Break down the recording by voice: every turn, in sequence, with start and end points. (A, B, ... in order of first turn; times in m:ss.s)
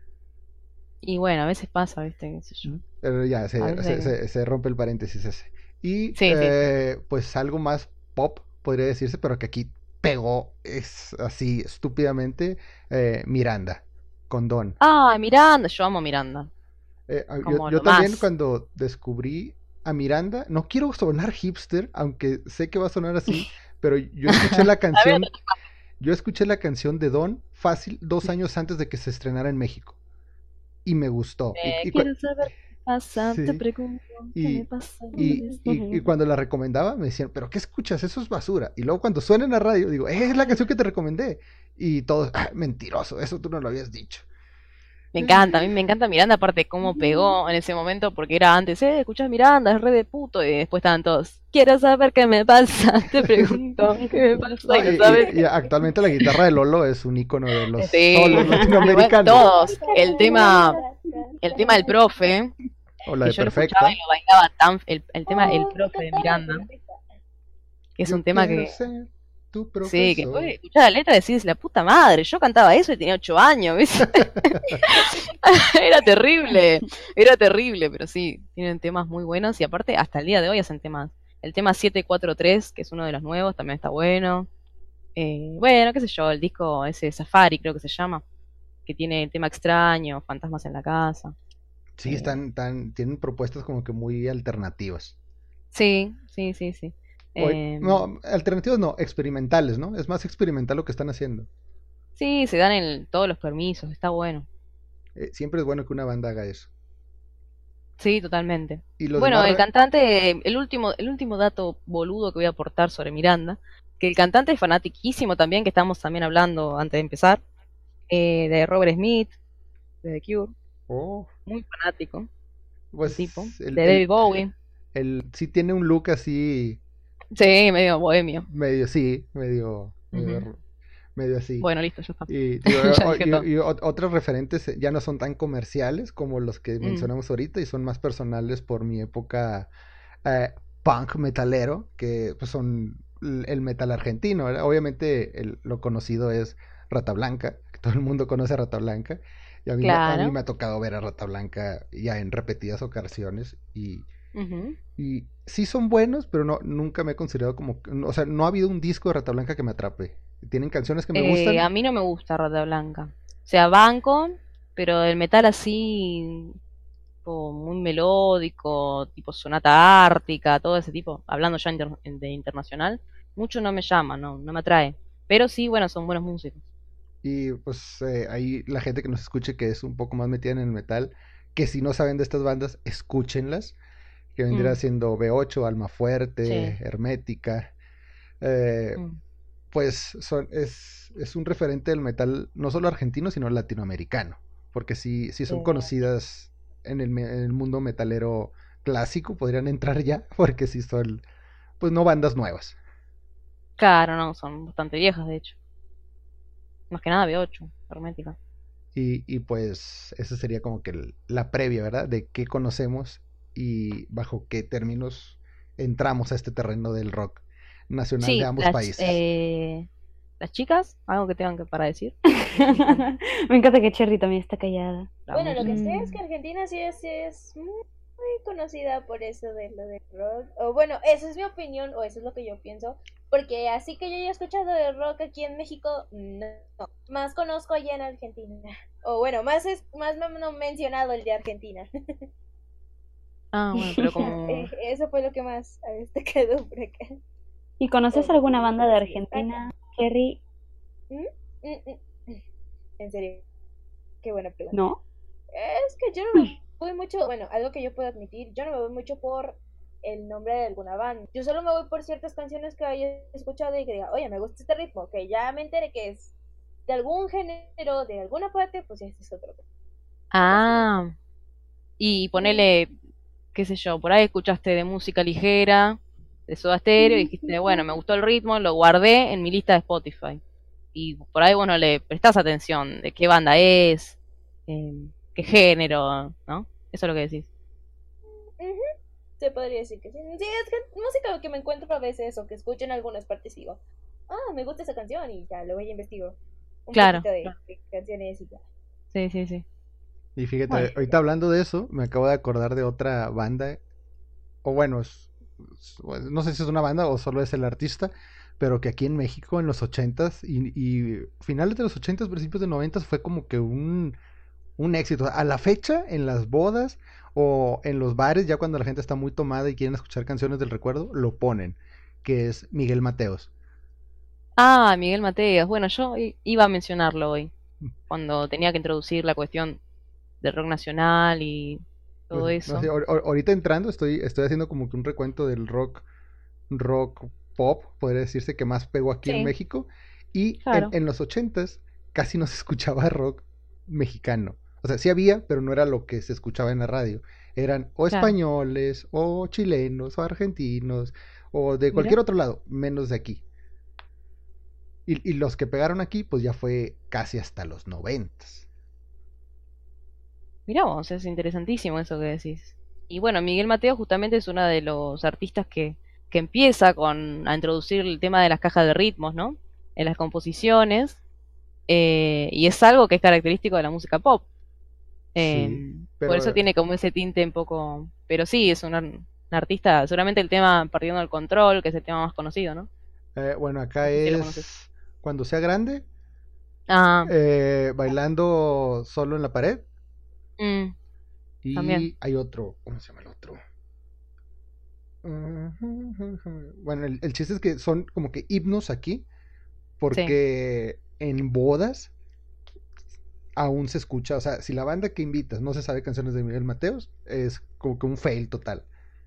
0:01.0-0:02.7 A
0:02.6-0:14.8 B
0:03.6-0:04.1 A
0:06.2-0:06.5 A
0:14.8-0:16.5 A
0:17.1-0:25.3 B
0:17.4-0:18.3 A
0:24.3-0:25.6 A
0:26.0-0:30.0 B
0:30.8-0:32.1 B
0:31.6-0:35.6 A
0:33.2-0:33.6 B
0:34.4-0:44.3 B
0:35.2-0:36.0 C
0:45.1-0:55.3 A
0:45.2-0:45.7 B
0:53.3-0:53.5 B
0:54.0-0:54.6 C
0:54.7-0:59.5 B
0:57.8-1:00.8 A
0:58.4-0:58.8 C
0:59.4-1:01.9 D
0:59.6-1:01.2 C
1:01.4-1:02.5 A
1:03.0-1:04.0 B
1:03.2-1:06.6 A
1:05.3-1:07.0 D
1:08.0-1:08.8 A
1:08.0-1:10.6 B
1:09.8-1:24.5 A
1:25.2-1:28.2 A
1:28.9-1:31.3 A
1:32.0-1:35.1 B
1:32.1-1:32.4 A
1:35.7-1:38.1 A
1:37.4-1:41.5 B
1:42.2-1:44.5 A
1:45.2-1:46.7 B
1:48.0-1:57.4 A
1:49.0-1:49.6 B
1:58.1-1:59.4 A
2:00.0-2:00.5 A
2:00.9-2:01.3 B
2:01.5-2:02.3 A
2:02.9-2:04.4 B
2:03.0-2:04.5 A
2:04.9-2:06.8 B
2:07.4-2:08.5 A
2:08.5-2:10.6 B
2:10.1-2:10.5 A
2:11.2-2:11.7 B
2:11.6-2:13.5 A
2:12.3-2:19.7 B
2:16.8-2:17.1 A
2:20.2-2:34.1 B
2:29.8-2:30.4 A
2:34.4-2:34.8 A
2:35.0-2:41.7 B
2:41.2-2:46.6 A
2:47.2-2:56.6 A
2:57.2-3:03.8 B
3:04.4-3:07.7 B
3:04.5-3:04.8 A
3:06.5-3:06.8 A
3:08.4-3:09.0 B
3:09.7-3:21.2 B
3:15.5-3:15.8 A
3:21.8-3:22.8 B
3:23.8-3:25.6 A
3:26.9-3:28.4 A
3:29.0-3:39.2 B
3:38.2-3:39.9 A
3:40.4-3:43.0 A
3:42.4-3:45.1 C
3:45.3-3:45.8 A
3:45.3-4:01.9 D
3:45.6-3:46.2 C
4:03.5-4:04.7 A
4:04.0-4:07.2 D
4:07.8-4:10.4 C
4:08.1-4:09.6 D
4:11.1-4:12.4 D
4:13.0-4:13.4 D
4:14.2-4:14.8 D
4:14.7-4:15.0 C
4:15.5-4:26.3 D
4:26.9-4:29.6 D
4:30.3-4:31.1 A
4:30.5-4:30.9 D
4:32.0-4:32.9 A
4:32.4-4:32.7 D
4:33.6-4:40.4 A
4:40.9-4:47.5 A
4:48.6-4:48.8 D
4:49.4-4:58.6 D
4:56.9-4:57.5 A
4:59.1-4:59.6 A
5:00.4-5:03.8 B
5:04.6-5:14.2 B
5:14.8-5:23.5 B
5:24.6-5:27.5 A
5:28.1-5:29.8 A
5:30.4-5:32.9 A
5:32.3-5:36.1 B
5:36.7-5:53.4 B
5:39.3-5:39.5 A
5:40.6-5:40.9 A
5:55.1-5:58.7 B
6:00.7-6:11.2 A
6:11.9-6:14.4 A
6:15.4-6:22.9 A
6:15.4-6:16.6 B
6:23.4-6:26.0 B
6:24.1-6:24.6 A
6:26.9-6:27.3 A
6:27.2-6:29.8 B
6:30.6-6:30.9 A
6:31.6-6:33.6 B
6:31.8-6:32.1 A
6:35.2-6:39.3 B
6:40.0-6:42.1 B
6:43.6-6:48.9 B